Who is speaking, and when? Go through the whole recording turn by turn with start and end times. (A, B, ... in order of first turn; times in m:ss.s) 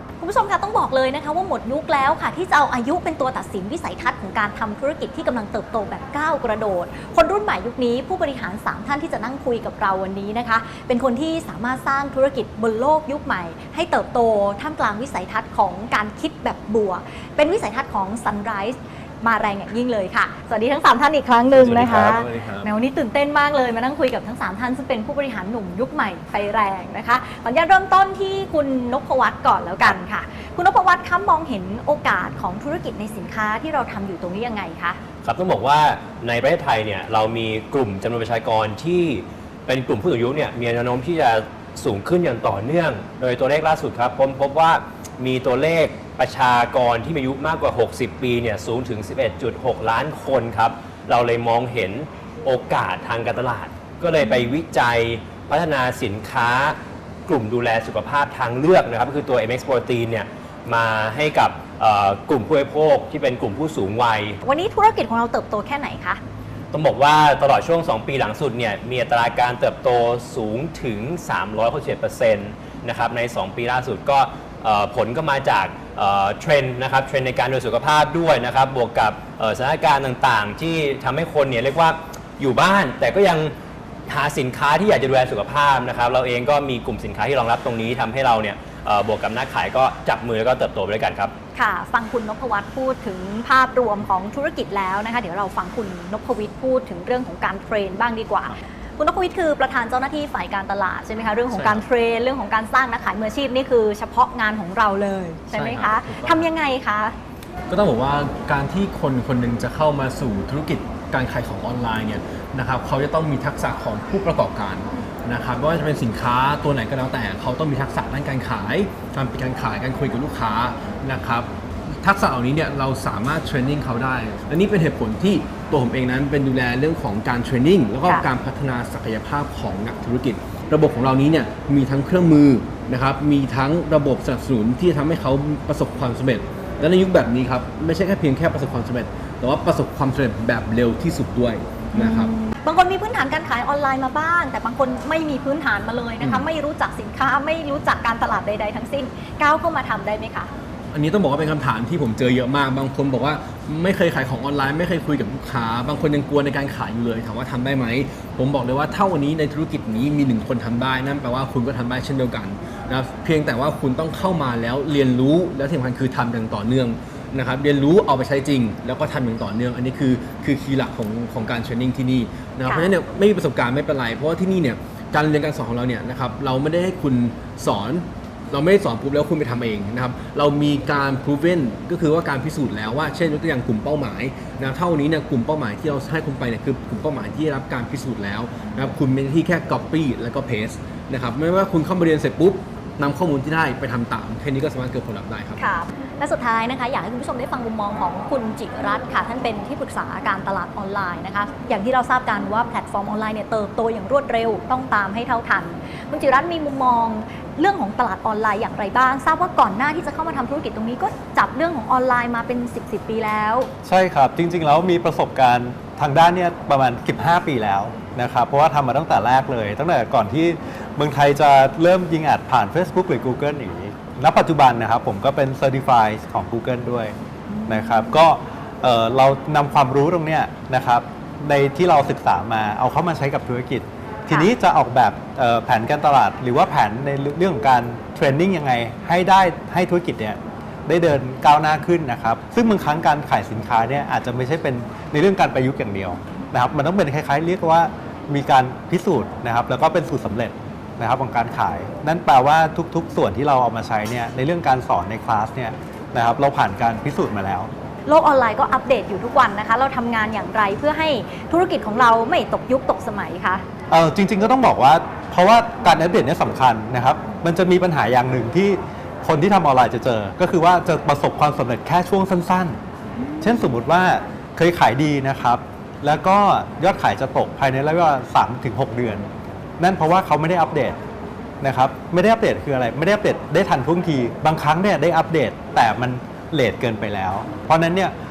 0:00.2-0:35.0 A
0:21.5-0:22.7 B
0:35.2-1:04.4 C
1:04.4-1:06.2 A
1:06.7-1:23.5 C
1:24.1-1:31.3 C
1:31.5-1:47.2 A
1:41.5-1:41.8 B
1:45.5-1:46.4 B
1:47.7-2:01.5 B
2:02.0-2:22.3 B
2:21.9-2:30.5 A
2:30.9-3:15.6 B
2:52.6-2:52.9 A
3:15.6-3:33.7 A
3:33.8-3:47.1 D
3:47.5-3:48.1 A
3:47.7-4:17.7 D
4:18.0-4:23.6 A
4:23.9-4:32.8 D
4:33.4-4:39.3 D
4:39.8-4:41.0 D
4:41.6-4:48.1 D